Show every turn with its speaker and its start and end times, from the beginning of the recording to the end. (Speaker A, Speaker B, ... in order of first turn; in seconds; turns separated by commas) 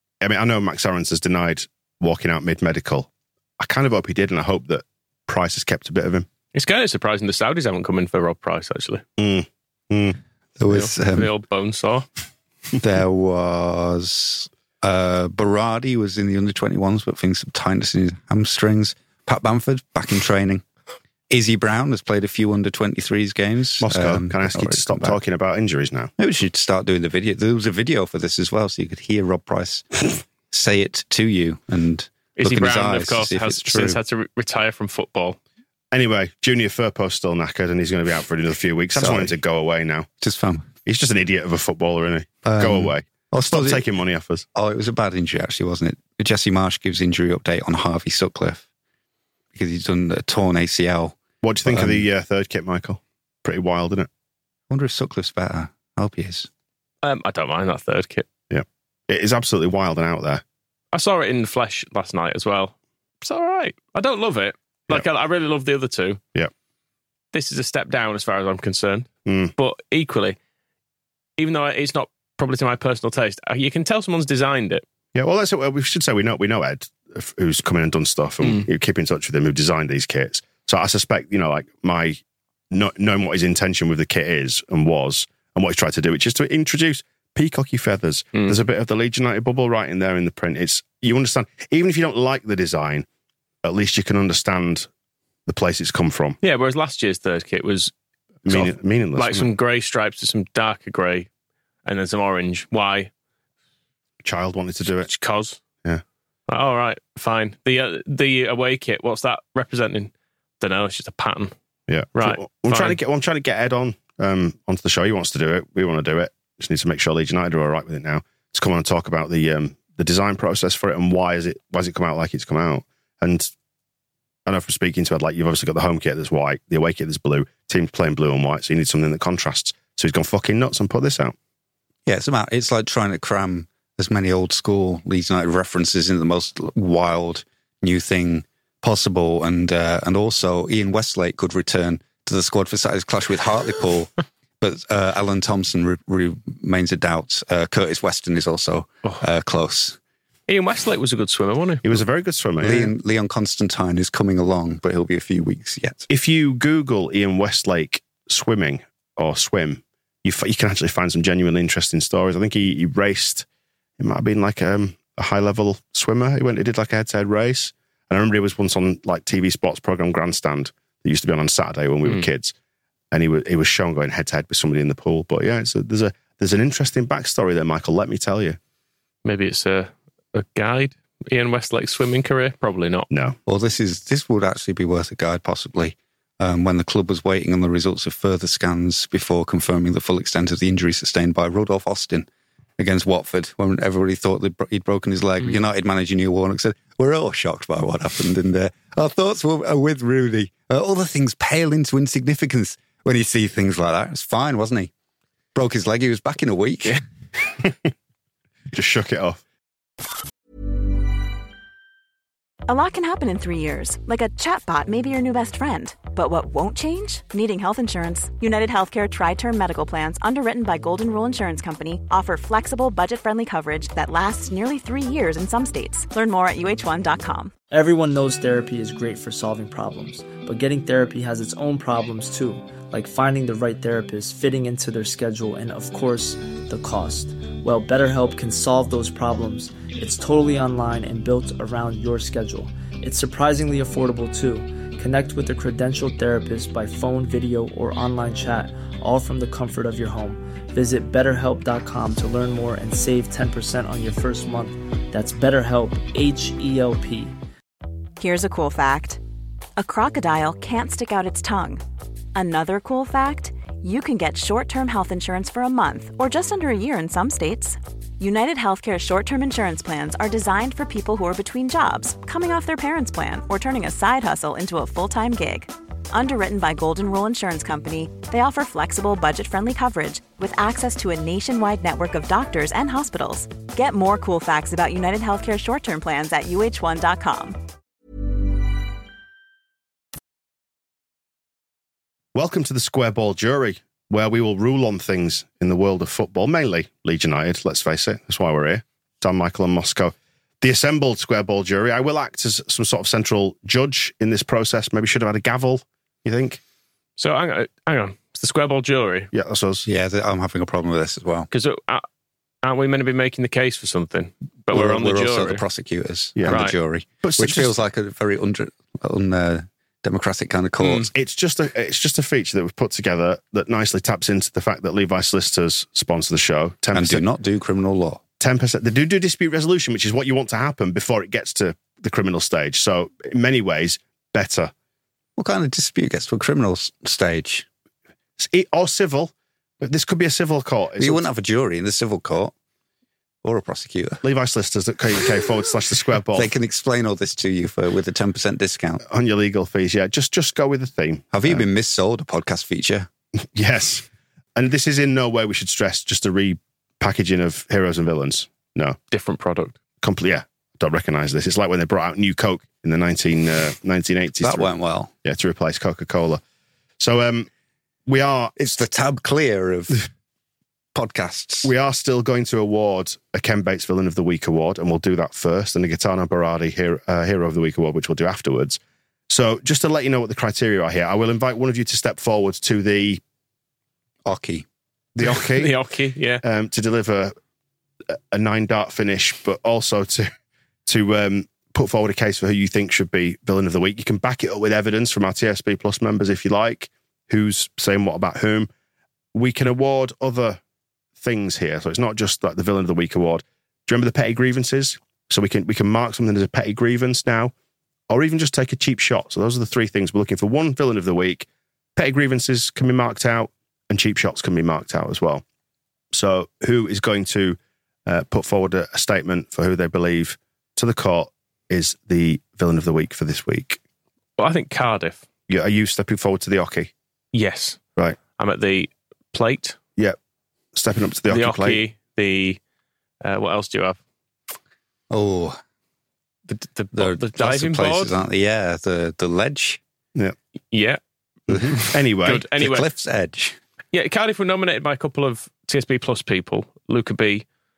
Speaker A: 0.2-3.1, Speaker A: 3.6-6.3, Speaker B: 6.5-9.0, Speaker A: 9.2-10.2, Speaker C: 10.6-11.3, Speaker B: 10.7-12.1, Speaker C: 12.8-20.6, Speaker C: 21.3-25.2, Speaker A: 23.8-26.1, Speaker C: 26.2-34.0, Speaker B: 32.4-35.4, Speaker A: 35.9-40.1, Speaker C: 38.9-39.3, Speaker C: 40.2-40.7, Speaker A: 40.8-44.4, Speaker C: 42.4-43.8, Speaker C: 44.5-48.6, Speaker C: 49.5-52.0, Speaker A: 51.4-54.1, Speaker C: 54.7-56.5, Speaker B: 57.0-58.2, Speaker A: 58.5-60.4, Speaker B: 60.9-66.2, Speaker B: 67.3-70.4, Speaker A: 69.2-69.5, Speaker B: 71.4-74.8, Speaker A: 75.1-82.2, Speaker B: 78.4-78.7, Speaker A: 82.7-93.0, Speaker A: 93.6-94.9, Speaker A: 95.5-96.4, Speaker B: 96.4-97.9, Speaker A: 98.5-99.5, Speaker B: 98.5-101.3, Speaker B: 101.8-103.1, Speaker A: 104.2-105.1, Speaker B: 105.0-105.6, Speaker B: 106.5-111.5, Speaker A: 111.9-123.5, Speaker B: 112.2-113.0, Speaker A: 124.5-131.3, Speaker C: 132.1-150.0, Speaker B: 150.5-152.0, Speaker A: 151.8-152.9, Speaker C: 152.6-156.1, Speaker A: 156.1-163.4, Speaker A: 164.0-172.5, Speaker A: 173.1-178.6, Speaker B: 179.2-183.1, Speaker A: 183.1-183.4, Speaker C: 183.4-204.9, Speaker C: 205.5-207.0, Speaker A: 208.7-209.4, Speaker D: 212.7-227.5, Speaker E: 227.7-257.4, Speaker D: 258.2-259.2, Speaker D: 259.8-261.8, Speaker D: 262.3-287.6, Speaker A: 292.3-306.6, Speaker B: 307.2-309.3, Speaker A: 309.3-309.9, Speaker C: 309.9-311.5, Speaker B: 311.5-312.0, Speaker B: 312.6-315.6, Speaker C: 314.7-321.1, Speaker A: 316.4-316.6, Speaker B: 316.5-316.7, Speaker A: 317.2-317.7, Speaker B: 320.8-321.1, Speaker A: 321.1-327.2, Speaker C: 326.9-328.2, Speaker A: 328.4-334.7, Speaker C: 335.4-337.6, Speaker A: 338.4-341.2, Speaker C: 341.0-342.5, Speaker C: 343.4-344.2, Speaker A: 344.2-346.5, Speaker C: 346.3-349.0, Speaker A: 349.1-351.6, Speaker C: 351.3-353.1, Speaker A: 353.5-359.0, Speaker B: 359.1-359.8, Speaker A: 360.0-364.7, Speaker C: 364.4-365.1, Speaker A: 365.2-366.4, Speaker A: 367.0-367.5, Speaker A: 368.1-368.5, Speaker C: 368.6-370.0, Speaker C: 370.9-371.7, Speaker A: 371.6-383.2, Speaker C: 384.2-384.6, Speaker A: 385.1-385.7, Speaker B: 385.2-386.4, Speaker A: 386.4-387.3, Speaker A: 388.1-390.3, Speaker A: 390.9-398.7, Speaker A: 399.3-400.6, Speaker A: 401.2-407.5, Speaker A: 408.1-415.4, Speaker A: 416.1-423.8, Speaker B: 424.4-425.2, Speaker A: 425.5-426.9, Speaker B: 427.3-427.8, Speaker B: 428.4-429.8, Speaker A: 430.7-431.8, Speaker B: 431.3-432.6, Speaker B: 433.2-434.0, Speaker C: 435.1-435.6, Speaker B: 436.5-438.1, Speaker C: 436.9-439.8, Speaker B: 440.7-441.0, Speaker A: 441.5-442.4, Speaker C: 441.5-441.8, Speaker B: 441.7-442.9, Speaker C: 442.5-443.6, Speaker B: 443.9-447.4